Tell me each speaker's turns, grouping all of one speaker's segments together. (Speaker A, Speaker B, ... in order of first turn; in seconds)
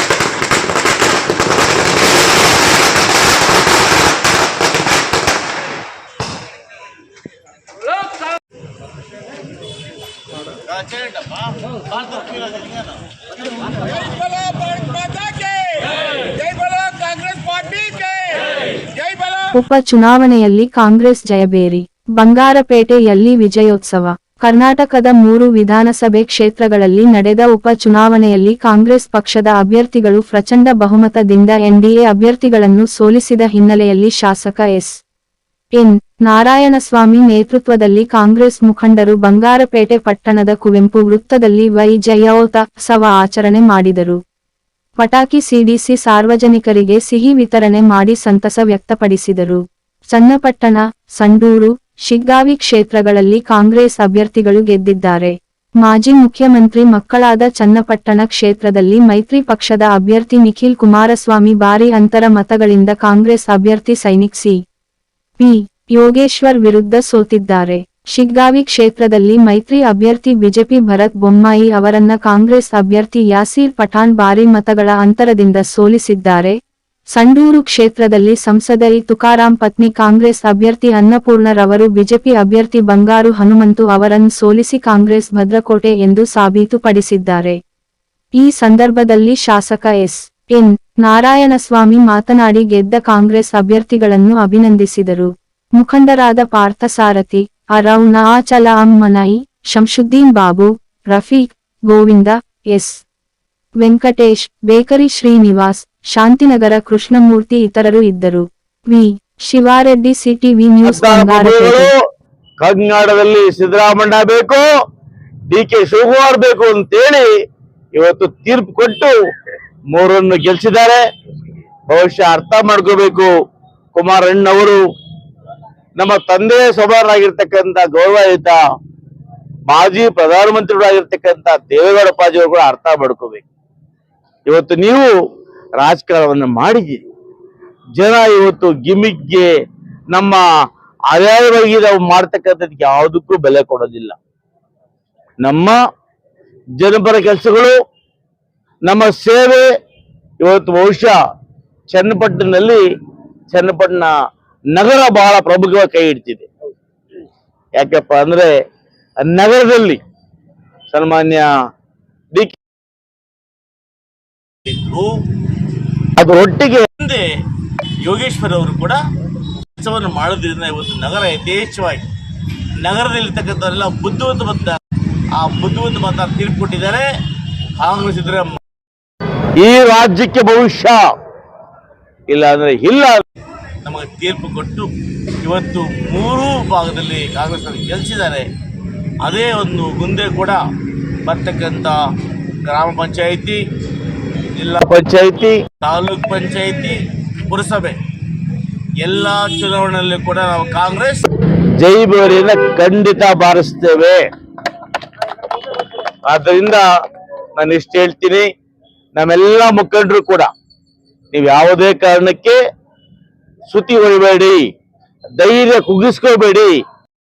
Speaker A: 10.7-12.8, 13.9-18.4, 164.7-165.2, 168.1-169.0, 169.8-172.0, 172.8-174.8, 175.4-177.1, 177.8-178.6, 183.8-184.9, 185.4-188.5, 189.2-190.6, 191.3-192.0, 192.6-193.6, 194.6-194.8, 195.8-198.0, 199.0-201.2
Speaker B: 19.5-35.0, 35.8-44.2, 45.0-64.6, 65.4-76.6, 77.2-87.6, 88.4-103.0, 103.8-111.9
Speaker C: 110.8-111.9, 112.6-114.7, 115.5-117.3, 118.0-119.1, 119.9-121.0, 121.9-123.3, 123.9-124.8, 126.0-128.6, 129.7-133.4, 134.5-135.1, 135.8-137.1, 137.9-139.5, 140.1-140.4, 141.1-144.2, 145.4-145.8, 146.8-147.8, 148.9-149.7, 150.4-151.2, 151.9-152.8, 153.5-154.1, 154.7-156.5, 157.8-158.5, 159.2-160.0, 160.9-161.5, 166.2-167.0, 179.6-181.1, 182.3-183.2, 194.8-195.6, 201.8-204.2, 206.3-206.8, 207.6-208.5, 209.2-210.5, 211.3-212.6, 213.7-214.7, 215.4-216.8